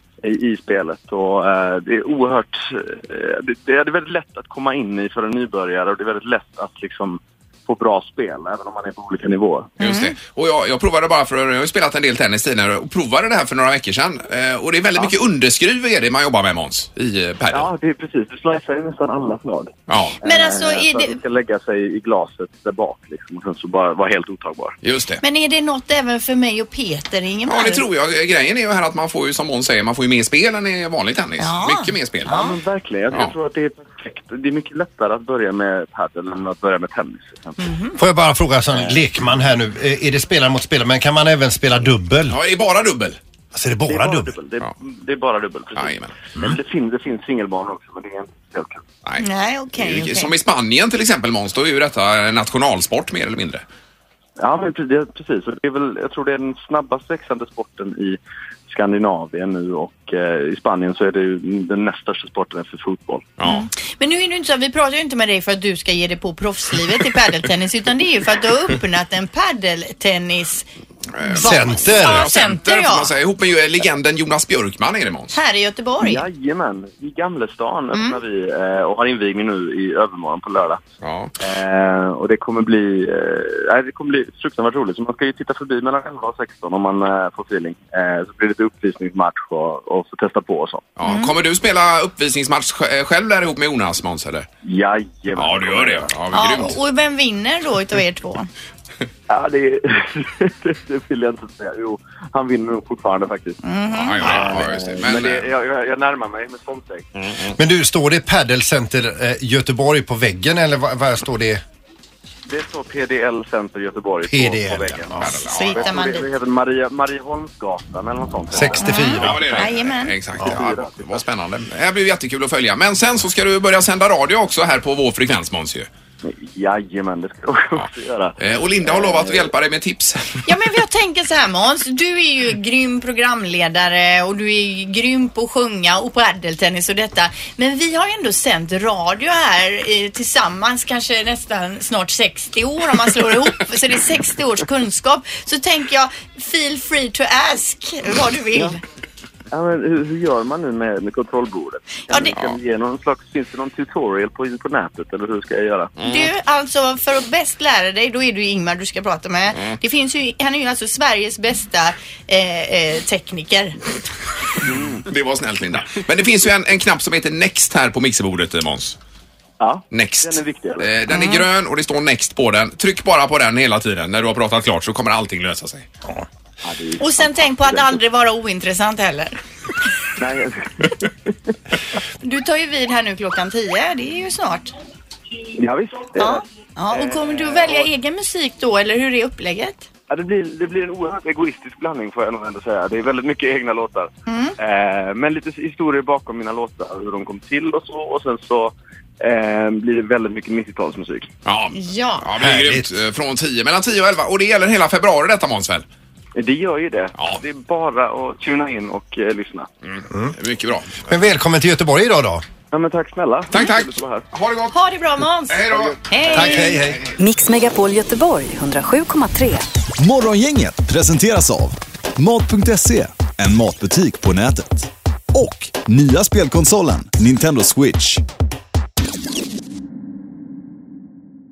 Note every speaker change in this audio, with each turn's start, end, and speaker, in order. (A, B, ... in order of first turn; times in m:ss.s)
0:00.2-0:09.7 A
0:09.8-0:17.7 B
0:09.8-0:10.1 C
0:17.5-0:24.7 A
0:19.9-0:20.2 B
0:20.2-0:21.2 C
0:24.8-0:25.2 B
0:25.2-0:27.8 C
0:27.4-0:32.3 B
0:31.4-0:32.6 C
0:32.2-0:37.7 A
0:37.6-0:38.0 C
0:38.0-0:42.4 D
0:42.3-0:43.2 B
0:43.5-0:44.4 D
0:43.8-0:48.8 A
0:45.7-0:46.1 B
0:49.0-0:53.6 B
0:49.2-0:50.3 C
0:54.4-0:58.2 A
0:58.7-1:03.3 A
1:03.4-1:03.7 B
1:03.4-1:10.6 C
1:11.1-1:15.4 B
1:11.2-1:13.1 C
1:11.4-1:12.3 D
1:15.3-1:16.2 C
1:16.0-1:20.8 A
1:17.9-1:18.2 C
1:21.0-1:21.3 B
1:21.4-1:30.9 A
1:31.0-1:34.5 B
1:31.0-1:31.3 C
1:34.6-1:36.1 A
1:35.3-1:36.8 B
1:36.3-1:38.5 C
1:39.3-1:43.6 A
1:43.6-1:44.6 C
1:43.9-1:45.5 B
1:44.2-1:47.1 A
1:47.2-1:47.5 B
1:47.6-1:51.6 D
1:52.5-1:59.0 A
1:54.2-1:55.4 D
1:55.1-1:56.0 B
1:55.5-1:56.3 C
1:58.5-1:59.6 D
1:58.8-2:00.2 C
1:59.0-2:05.9 B
2:00.4-2:01.2 A
2:06.2-2:09.5 A
2:07.8-2:10.5 B
2:10.4-2:28.8 C
2:29.5-2:35.9 A
2:32.1-2:32.4 C
2:36.0-2:36.3 B
2:36.0-2:43.8 C
2:44.6-2:45.0 A
2:45.1-2:49.0 B
2:49.6-2:50.9 A
2:49.9-2:55.9 B
2:51.1-2:51.5 C
2:56.6-2:58.0 A
2:57.0-2:59.4 C
3:00.2-3:01.0 A
3:02.2-3:04.7 C
3:05.6-3:07.9 A
3:06.2-3:09.9 C
3:10.1-3:21.3 A
3:14.3-3:14.6 C
3:21.4-3:25.8 B
3:21.7-3:22.2 C
3:22.3-3:22.9 D
3:26.4-3:29.7 A
3:27.2-3:27.4 B
3:29.8-3:31.0 B
3:31.1-3:32.4 D
3:32.7-3:34.2 A
3:33.5-3:34.7 B
3:34.7-3:36.8 C
3:35.5-3:36.9 B
3:36.3-3:37.0 D
3:37.2-3:39.6 E
3:40.0-3:48.2 F